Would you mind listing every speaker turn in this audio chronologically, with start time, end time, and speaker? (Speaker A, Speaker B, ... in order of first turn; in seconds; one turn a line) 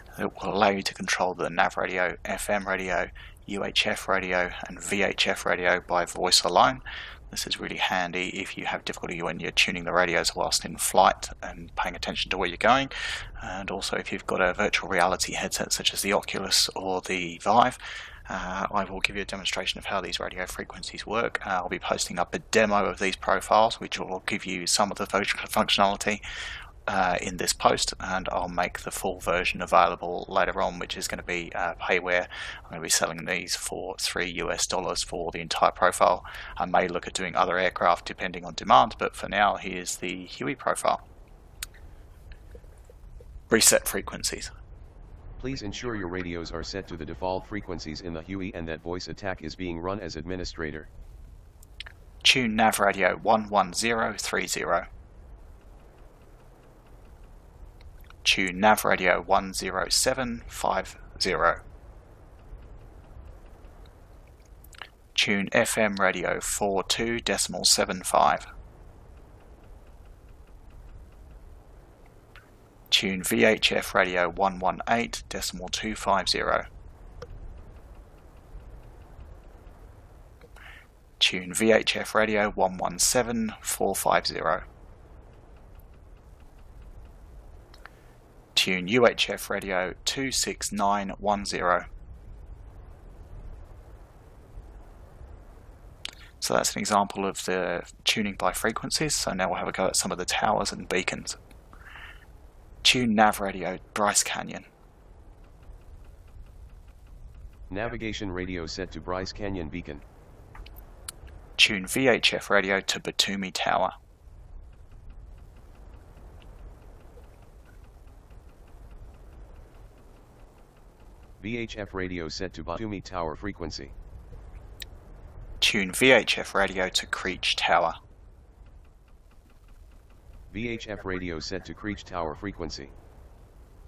Speaker A: 0.1-26.2
Speaker A: 26.9-41.0
Speaker A: 43.5-44.5
Speaker B: 45.4-50.9
Speaker A: 52.2-54.9
Speaker A: 58.2-61.6
Speaker A: 65.1-68.5
Speaker A: 72.9-76.7
Speaker A: 81.2-84.6
Speaker A: 88.5-91.9
Speaker A: 96.4-101.4
Speaker A: 102.8-104.7
Speaker B: 107.7-110.0
Speaker A: 111.6-113.9
Speaker B: 121.4-123.9
Speaker A: 125.6-128.0
Speaker B: 130.5-132.9